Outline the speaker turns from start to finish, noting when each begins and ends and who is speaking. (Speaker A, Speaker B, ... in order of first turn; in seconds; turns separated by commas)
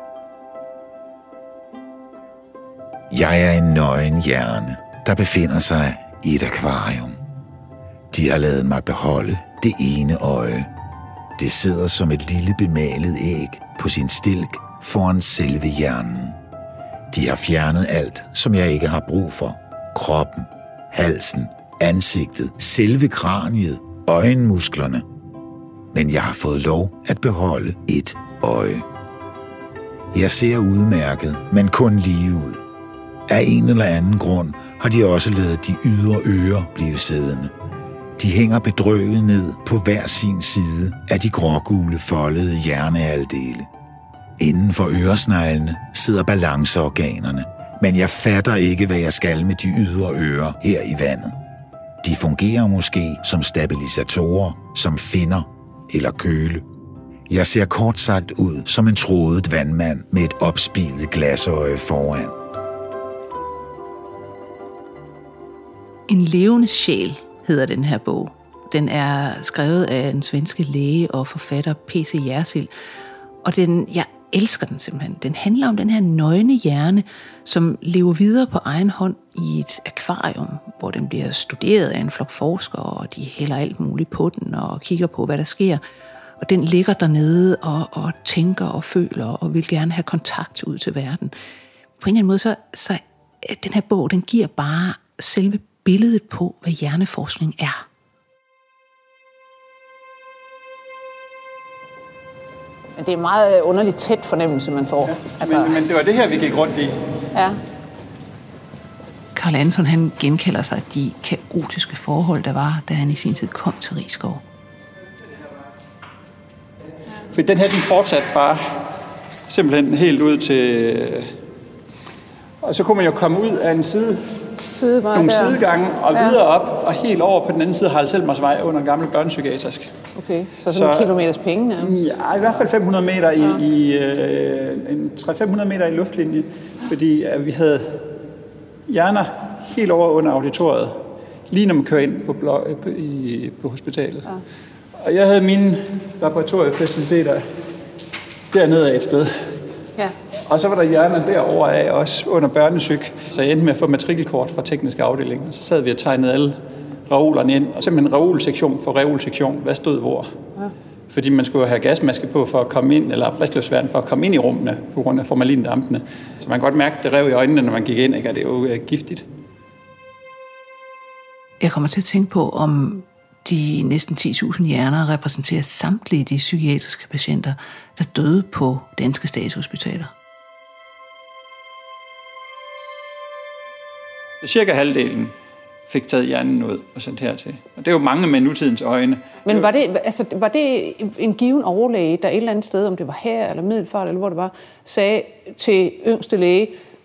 Speaker A: 3.1-7.2, Speaker A: 8.1-10.7, Speaker A: 11.4-16.4, Speaker A: 17.1-25.1, Speaker A: 25.9-28.9, Speaker A: 30.1-32.6, Speaker A: 33.3-37.5, Speaker A: 38.2-43.7, Speaker A: 44.4-51.4, Speaker A: 52.0-56.6, Speaker A: 57.3-62.4, Speaker B: 66.1-72.7, Speaker B: 73.4-85.8, Speaker B: 86.4-91.3, Speaker B: 92.0-97.8, Speaker C: 103.0-105.8, Speaker D: 105.1-107.0, Speaker B: 109.3-114.4, Speaker D: 117.3-118.9, Speaker D: 119.5-121.3, Speaker D: 122.6-124.3, Speaker C: 124.8-125.6, Speaker D: 125.1-129.9, Speaker C: 126.1-126.4, Speaker C: 130.2-132.0, Speaker D: 130.7-131.2, Speaker D: 131.8-138.1, Speaker D: 138.9-144.3, Speaker D: 145.0-147.4, Speaker D: 148.5-149.5, Speaker D: 150.5-160.3, Speaker D: 161.1-169.2, Speaker B: 171.6-180.1, Speaker D: 184.4-185.3, Speaker D: 185.9-189.7, Speaker C: 189.4-196.8